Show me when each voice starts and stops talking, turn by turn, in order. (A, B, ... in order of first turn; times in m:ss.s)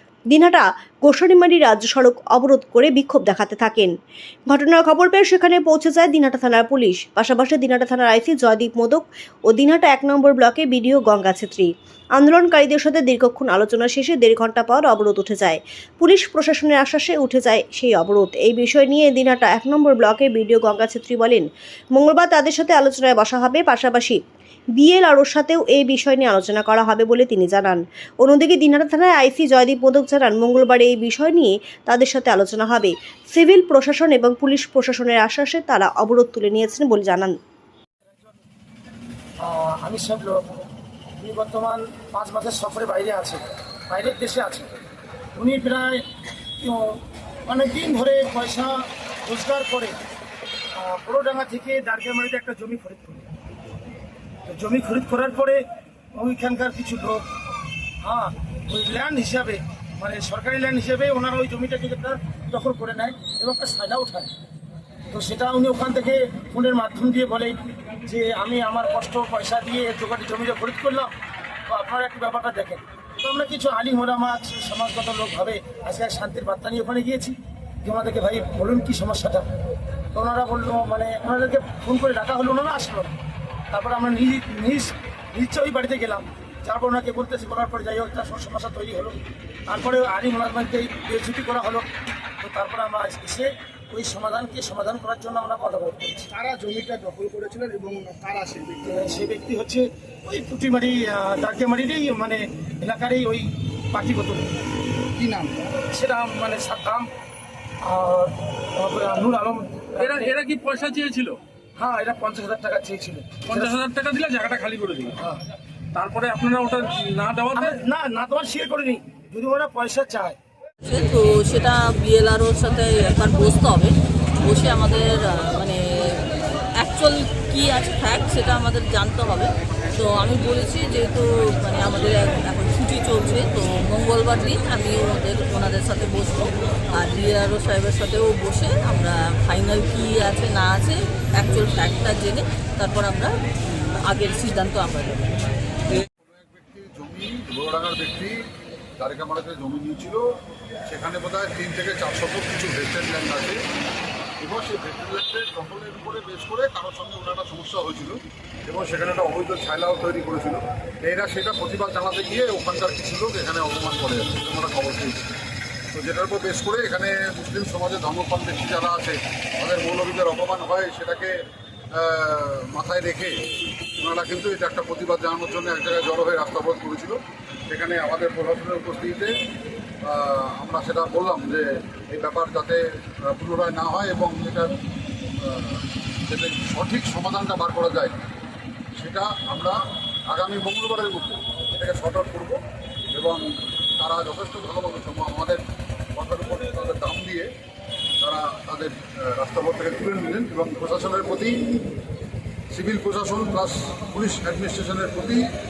0:00.3-0:03.9 A
0:04.5-0:24.2 A
0:24.8-0:37.4 A
0:38.0-0:38.4 B
0:39.4-0:44.8 B
0:45.4-0:46.0 B
0:46.6-0:50.0 B
0:50.8-0:53.3 B
0:54.5-0:55.6 B
0:56.1-0:57.3 B
0:58.0-1:04.3 B
1:05.1-1:11.1 B
1:11.7-1:19.5 B
1:20.1-1:23.2 B
1:23.7-1:31.9 B
1:32.4-1:36.4 B
1:36.3-1:38.9 C
1:38.8-1:44.6 B
1:45.2-1:45.7 C
1:45.8-1:47.1 B
1:47.8-1:50.4 B
1:50.0-1:51.4 D
1:51.8-1:53.8 B
1:53.5-1:55.2 D
1:55.2-1:55.4 B
1:55.9-1:57.8 D
1:57.5-2:00.4 B
2:00.8-2:23.3 E
2:24.0-2:25.6 E
2:26.0-2:28.4 F
2:29.0-2:30.2 F
2:30.9-2:33.6 F
2:34.4-2:45.4 F
2:45.9-2:51.4 F
2:51.9-2:53.4 F
2:54.0-2:59.3 F
3:00.0-3:04.7 F
3:05.4-3:08.1 F
3:09.0-3:12.6 F
3:13.1-3:15.6 F
3:16.2-3:17.5 F
3:18.2-3:21.6 F
3:22.7-3:25.4 F